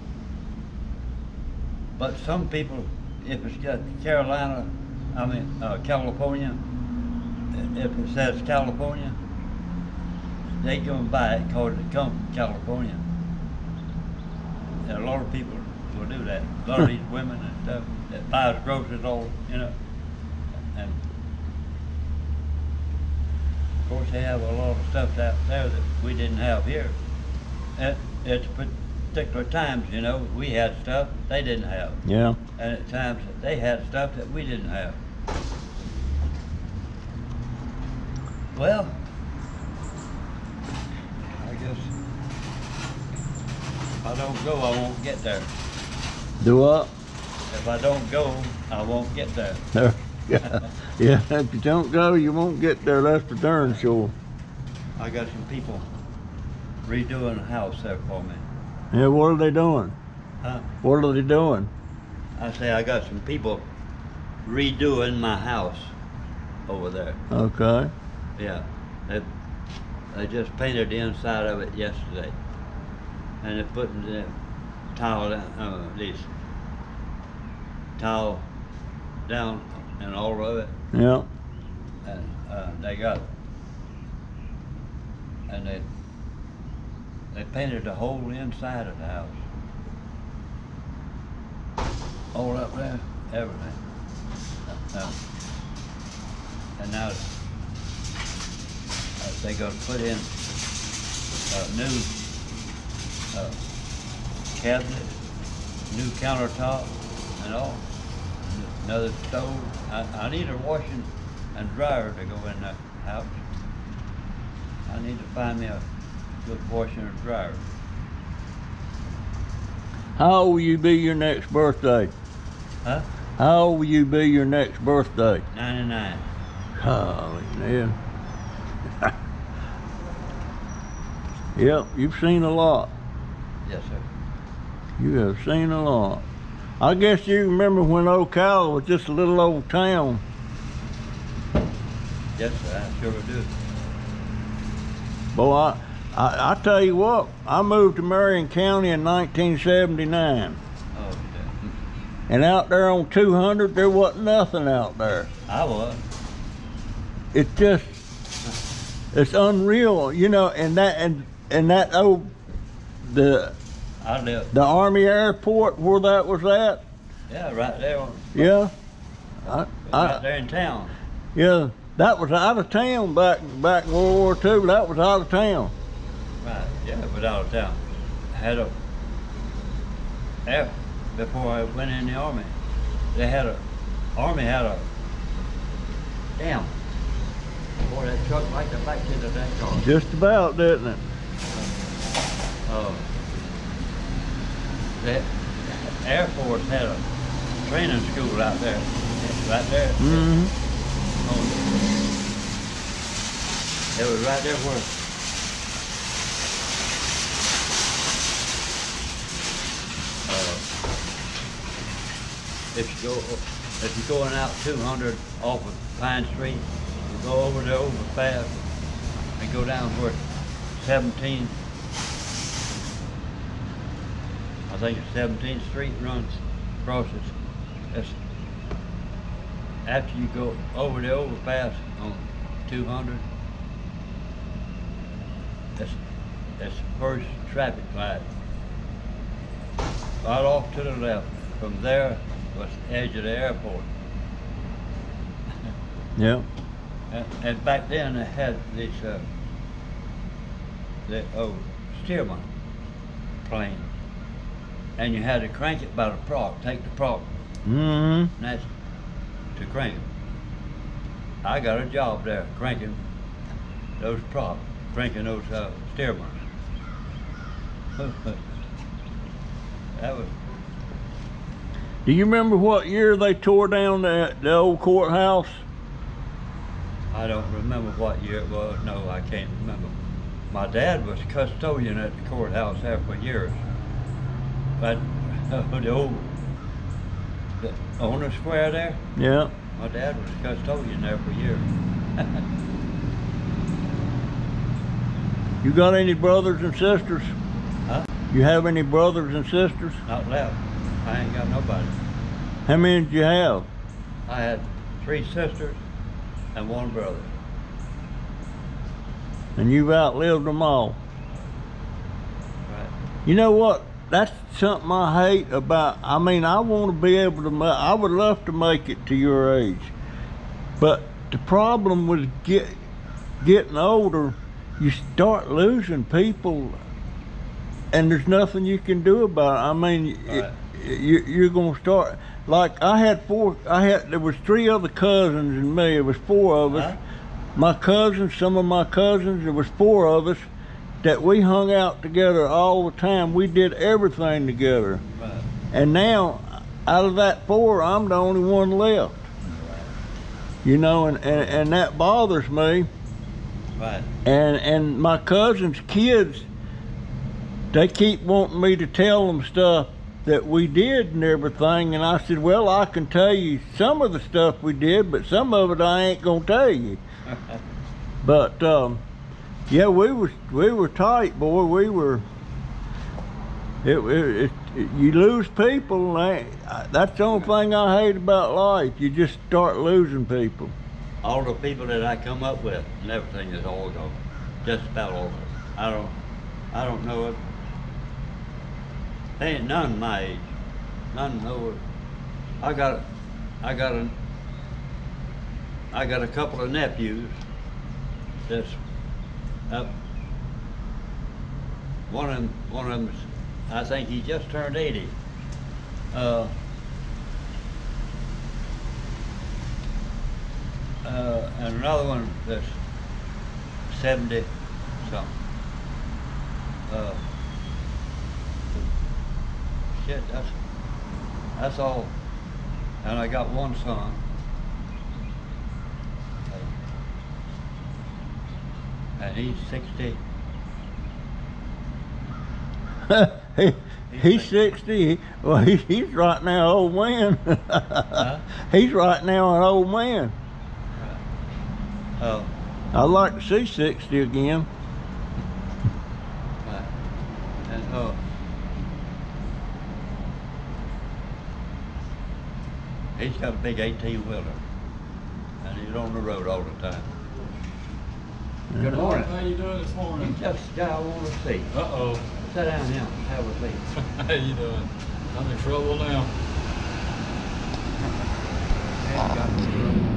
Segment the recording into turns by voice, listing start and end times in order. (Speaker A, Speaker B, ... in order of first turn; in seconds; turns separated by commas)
Speaker A: 2.0-6.6, Speaker A: 7.5-9.2, Speaker A: 10.6-13.1, Speaker A: 14.8-19.8, Speaker A: 20.7-21.0, Speaker A: 23.9-27.0, Speaker A: 27.8-32.0, Speaker B: 32.0-32.4, Speaker A: 32.6-35.0, Speaker A: 38.5-39.0, Speaker A: 41.4-41.9, Speaker A: 44.0-45.5, Speaker B: 46.4-46.9, Speaker A: 47.5-49.7, Speaker B: 49.7-54.1, Speaker A: 50.4-50.7, Speaker A: 55.0-55.9, Speaker A: 56.9-58.5, Speaker B: 58.9-60.0, Speaker A: 60.4-60.7, Speaker B: 60.8-61.7, Speaker A: 62.4-63.7, Speaker A: 64.5-66.0, Speaker A: 66.7-67.2, Speaker B: 67.3-67.9, Speaker A: 68.4-69.3, Speaker A: 70.1-72.4, Speaker A: 73.4-74.3, Speaker A: 75.0-76.3, Speaker A: 78.0-78.5, Speaker A: 79.3-80.8, Speaker B: 80.9-81.3, Speaker A: 82.0-83.3, Speaker A: 85.5-85.9, Speaker A: 87.3-89.4, Speaker A: 92.3-93.8, Speaker A: 94.8-95.2, Speaker A: 96.8-97.2, Speaker A: 99.2-100.3, Speaker A: 101.5-102.1, Speaker A: 104.6-105.2, Speaker A: 105.9-107.8, Speaker A: 108.4-113.4, Speaker A: 114.9-115.8, Speaker A: 116.4-117.6, Speaker B: 120.2-122.1, Speaker B: 123.4-125.4, Speaker A: 125.5-126.3, Speaker B: 126.8-128.0, Speaker B: 131.6-132.9, Speaker A: 133.7-134.1, Speaker B: 135.0-136.2, Speaker B: 136.8-140.2, Speaker A: 142.4-143.6, Speaker B: 145.3-150.6, Speaker A: 150.9-151.8, Speaker B: 152.3-155.3, Speaker A: 155.5-156.0, Speaker B: 157.3-157.9, Speaker B: 159.1-162.3, Speaker B: 163.0-163.6, Speaker A: 164.0-164.5, Speaker B: 164.5-166.8, Speaker A: 167.3-168.5, Speaker B: 168.3-168.7, Speaker A: 169.4-170.9, Speaker B: 169.5-170.2, Speaker B: 171.3-175.7, Speaker A: 176.4-178.7, Speaker A: 180.5-182.6, Speaker A: 183.1-183.6, Speaker A: 184.2-184.9, Speaker A: 186.4-186.7, Speaker A: 187.8-189.9, Speaker B: 189.8-191.0, Speaker A: 192.7-193.1, Speaker A: 195.0-197.1, Speaker A: 197.6-200.3, Speaker B: 200.0-200.5, Speaker A: 201.2-201.8, Speaker A: 203.9-204.9, Speaker A: 210.3-210.7, Speaker A: 212.7-218.6, Speaker A: 219.4-220.2, Speaker A: 220.8-221.6, Speaker A: 224.7-227.4, Speaker A: 227.9-228.2, Speaker A: 229.9-233.3, Speaker A: 236.6-238.3, Speaker A: 240.2-243.9, Speaker B: 246.2-246.5, Speaker A: 247.1-249.2, Speaker A: 251.1-252.5, Speaker A: 253.4-253.9, Speaker A: 255.0-257.4, Speaker B: 257.6-258.3, Speaker A: 258.4-258.7, Speaker A: 259.6-260.1, Speaker A: 261.4-263.0, Speaker A: 264.0-266.4, Speaker A: 268.0-268.4, Speaker A: 269.9-270.3, Speaker B: 272.1-275.6, Speaker A: 277.1-279.9, Speaker A: 280.5-283.6, Speaker A: 284.8-286.3, Speaker A: 287.6-289.1, Speaker B: 289.2-289.5, Speaker A: 289.8-292.4, Speaker B: 295.6-297.4, Speaker B: 298.3-300.0, Speaker A: 300.1-302.0, Speaker B: 302.7-303.7, Speaker A: 304.3-305.8, Speaker A: 306.6-307.3, Speaker B: 309.6-311.0, Speaker A: 312.7-312.9, Speaker B: 313.3-319.9, Speaker B: 320.8-322.8, Speaker B: 323.4-326.8, Speaker B: 327.9-337.0, Speaker A: 330.3-330.6, Speaker A: 336.7-337.0, Speaker B: 337.6-340.5, Speaker B: 341.0-345.0, Speaker A: 345.2-345.5, Speaker B: 345.7-349.3, Speaker A: 349.4-349.9, Speaker B: 350.6-352.9, Speaker A: 353.8-354.1, Speaker B: 354.2-356.5, Speaker B: 357.7-367.0, Speaker A: 367.3-367.6, Speaker B: 368.2-369.0, Speaker B: 369.7-372.3, Speaker B: 373.8-380.7, Speaker A: 381.2-386.2, Speaker A: 386.7-387.4, Speaker A: 389.4-390.5, Speaker A: 391.1-391.8, Speaker A: 392.6-393.1, Speaker A: 393.6-394.1, Speaker A: 395.9-397.4, Speaker A: 398.5-398.8, Speaker A: 399.7-399.9, Speaker A: 402.1-405.2, Speaker A: 406.1-406.6, Speaker A: 411.0-412.8, Speaker A: 413.9-415.3, Speaker A: 416.9-417.2, Speaker A: 419.9-420.6, Speaker A: 421.6-422.2, Speaker A: 423.0-424.2, Speaker A: 426.5-426.7, Speaker A: 429.2-430.2, Speaker B: 433.1-440.4, Speaker A: 434.1-434.6, Speaker A: 438.1-438.4, Speaker A: 442.2-442.5, Speaker B: 442.9-444.7, Speaker A: 446.6-446.9, Speaker A: 447.7-448.2, Speaker A: 453.2-454.6, Speaker A: 455.6-457.1, Speaker B: 458.7-459.1, Speaker A: 458.8-459.3, Speaker C: 458.8-460.5, Speaker A: 460.2-461.7, Speaker C: 461.7-462.3, Speaker A: 462.4-463.9, Speaker C: 464.0-466.3, Speaker A: 469.0-470.0, Speaker C: 469.2-470.0